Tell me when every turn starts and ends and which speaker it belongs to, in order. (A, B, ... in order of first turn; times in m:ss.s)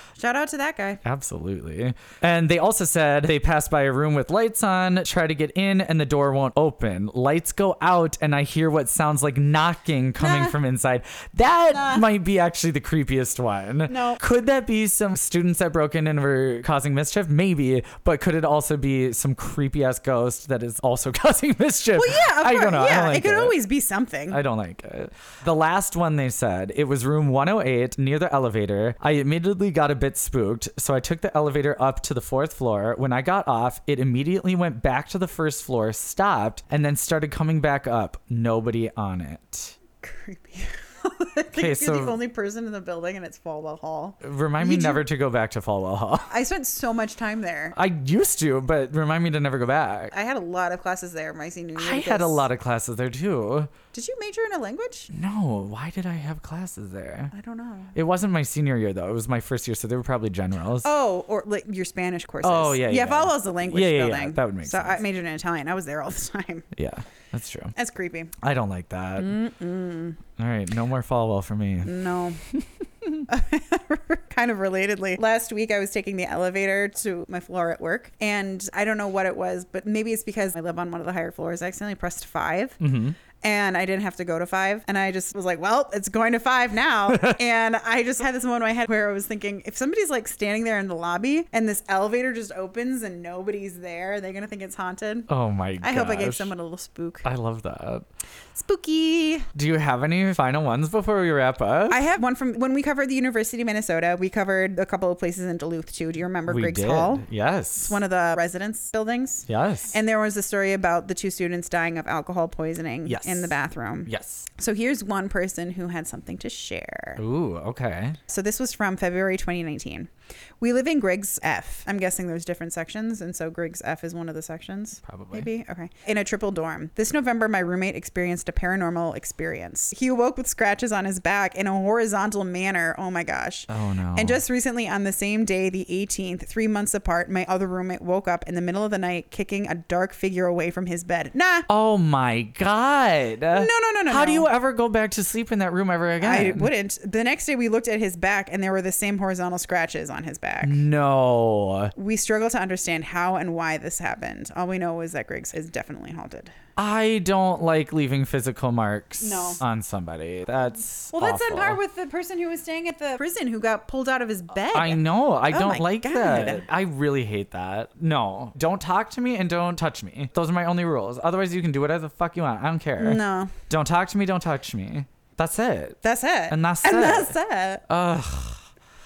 0:00.2-0:01.0 A
0:01.0-0:23.6 B
0:10.2-0:10.5 A
0:11.7-0:12.0 A
0:13.9-0:14.2 A
0:21.9-0:24.4 A
0:24.3-0:39.8 B
0:40.0-0:45.0 A
0:41.6-0:42.2 B
0:44.2-0:46.3 B
0:46.3-0:47.7 A
0:47.7-0:50.1 B
0:50.1-0:52.4 A
0:51.8-0:53.7 B
0:53.9-0:55.1 A
0:55.1-0:57.3 B
0:57.3-0:57.9 A
0:57.9-1:00.9 B
1:00.8-1:06.7 A
1:02.4-1:05.0 B
1:06.7-1:07.7 B
1:07.7-1:08.4 A
1:08.4-1:09.4 B
1:09.2-1:10.2 A
1:10.4-1:13.3 B
1:11.8-1:12.4 A
1:13.3-1:35.3 A
1:22.8-1:23.2 B
1:27.1-1:27.4 B
1:35.3-1:36.5 B
1:35.8-1:37.3 A
1:37.2-1:38.0 B
1:38.5-1:39.5 A
1:39.5-1:42.0 B
1:41.9-1:47.2 A
1:46.5-1:48.0 B
1:47.8-1:57.2 A
1:49.5-1:49.9 B
1:53.0-1:53.6 B
1:54.1-1:54.5 B
1:57.2-1:58.2 B
1:58.3-2:00.1 A
2:00.6-2:21.7 A
2:05.0-2:05.5 B
2:13.7-2:14.4 B
2:21.7-2:26.7 B
2:23.5-2:24.5 A
2:26.2-2:30.8 A
2:30.6-2:31.9 B
2:31.9-2:36.5 A
2:36.8-2:41.8 B
2:39.2-2:39.6 A
2:41.1-2:46.6 A
2:44.7-2:57.3 B
2:53.0-2:53.5 A
2:56.0-2:57.8 A
2:57.9-2:58.6 B